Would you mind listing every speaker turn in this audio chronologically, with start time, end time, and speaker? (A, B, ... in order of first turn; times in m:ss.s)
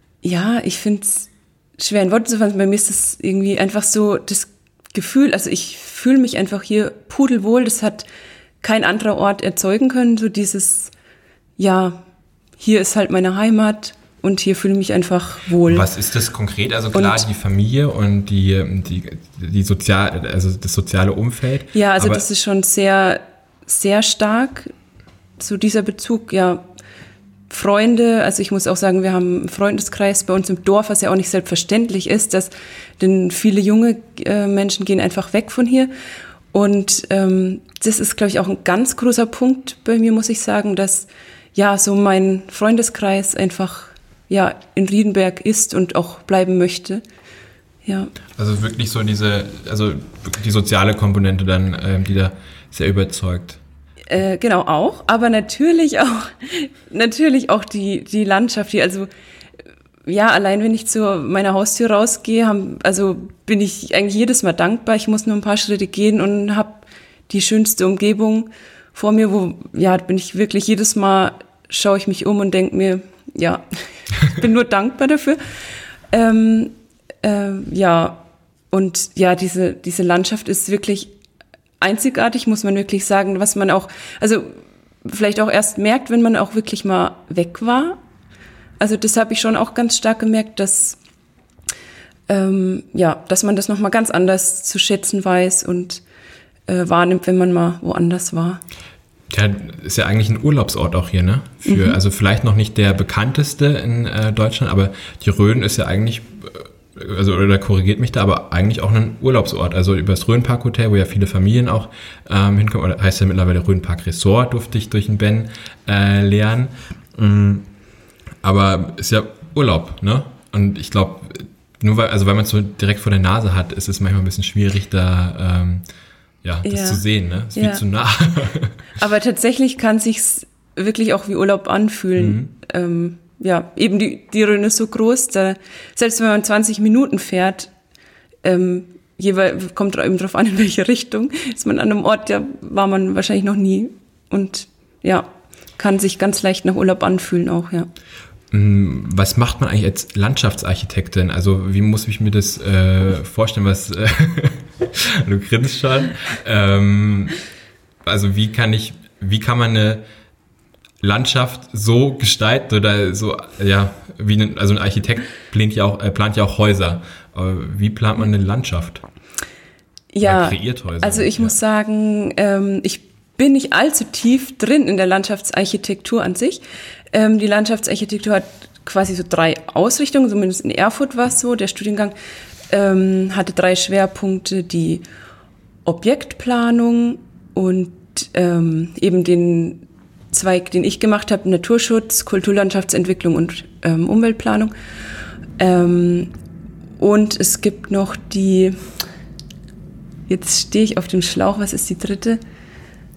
0:00.2-0:08.1 A
0:08.6-0:10.9 A
0:11.6-0:12.0 A
0:12.6-0:15.9 A
0:15.7-0:22.2 B
0:16.9-0:17.2 A
0:21.7-0:24.7 A
0:25.4-0:26.6 A
0:27.5-0:35.9 A
0:36.5-0:47.0 A
0:47.8-0:48.1 A
0:48.4-0:53.6 B
0:54.1-0:59.1 A
1:00.0-1:15.4 A
1:16.1-1:21.1 A
1:21.8-1:28.0 A
1:28.8-1:31.0 A
1:32.3-1:36.0 A
1:36.7-1:38.6 A
1:39.3-1:57.7 B
1:41.7-1:42.0 A
1:58.4-2:05.8 B
2:06.4-2:08.8 B
2:06.6-2:07.0 A
2:07.5-2:07.8 A
2:09.0-2:17.7 A
2:12.2-2:12.5 B
2:18.4-2:27.9 A
2:28.5-2:37.3 B
2:38.0-2:40.0 B
2:41.0-2:49.0 B
2:50.1-3:02.2 A
2:50.2-2:51.6 B
3:02.7-3:05.0 A
3:05.8-3:14.7 A
3:15.6-3:16.3 A
3:17.0-3:18.8 A
3:20.3-3:22.4 A